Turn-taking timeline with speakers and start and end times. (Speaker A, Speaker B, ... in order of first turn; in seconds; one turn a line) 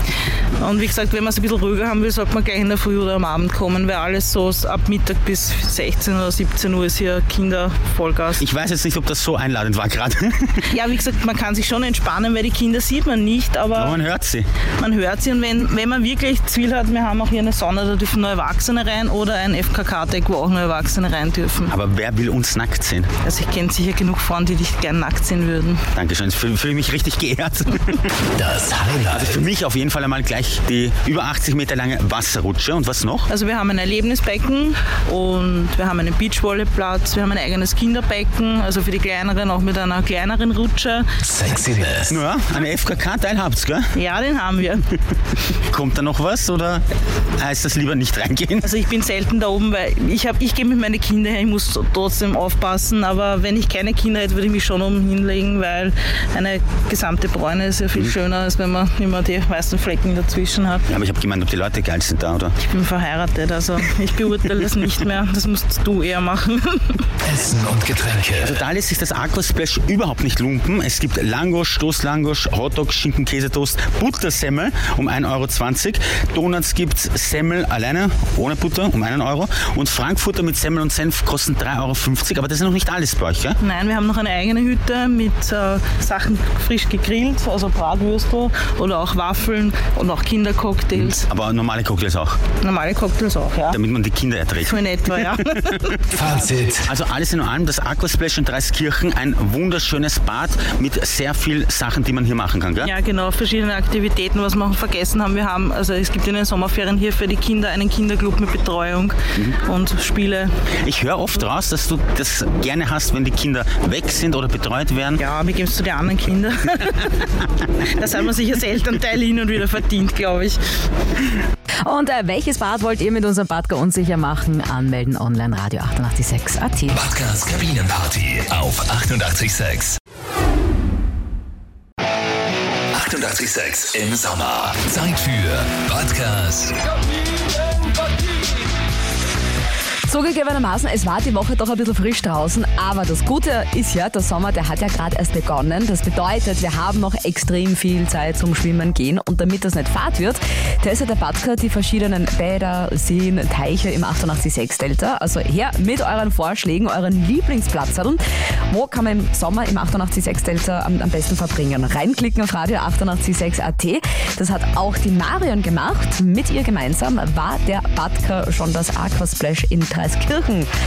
Speaker A: 0.6-8.4
Speaker B: 8.4-10.7
Speaker A: 10.7-14.0
Speaker B: 13.8-14.5
Speaker A: 14.8-21.7
Speaker B: 21.7-23.1
Speaker A: 23.2-25.8
Speaker B: 25.9-28.1
Speaker C: 28.4-29.4
Speaker B: 29.1-33.3
Speaker A: 33.3-41.1
Speaker C: 41.3-42.2
Speaker B: 42.1-43.9
Speaker A: 43.9-44.9
Speaker B: 45.7-46.9
Speaker B: 47.4-48.7
Speaker A: 48.6-60.9
Speaker B: 60.9-62.5
Speaker A: 62.6-67.1
Speaker C: 67.2-68.6
Speaker B: 68.4-83.6
Speaker A: 83.6-91.2
Speaker B: 91.0-92.4
Speaker A: 92.6-93.8
Speaker B: 93.7-95.3
Speaker A: 94.6-96.1
Speaker C: 96.1-96.9
Speaker B: 96.8-102.9
Speaker A: 102.8-110.5
Speaker B: 110.8-115.2
Speaker A: 115.2-117.3
Speaker A: 118.0-120.6
Speaker D: 121.8-127.0
Speaker C: 126.9-130.0
Speaker C: 132.9-136.8
Speaker E: 140.1-170.7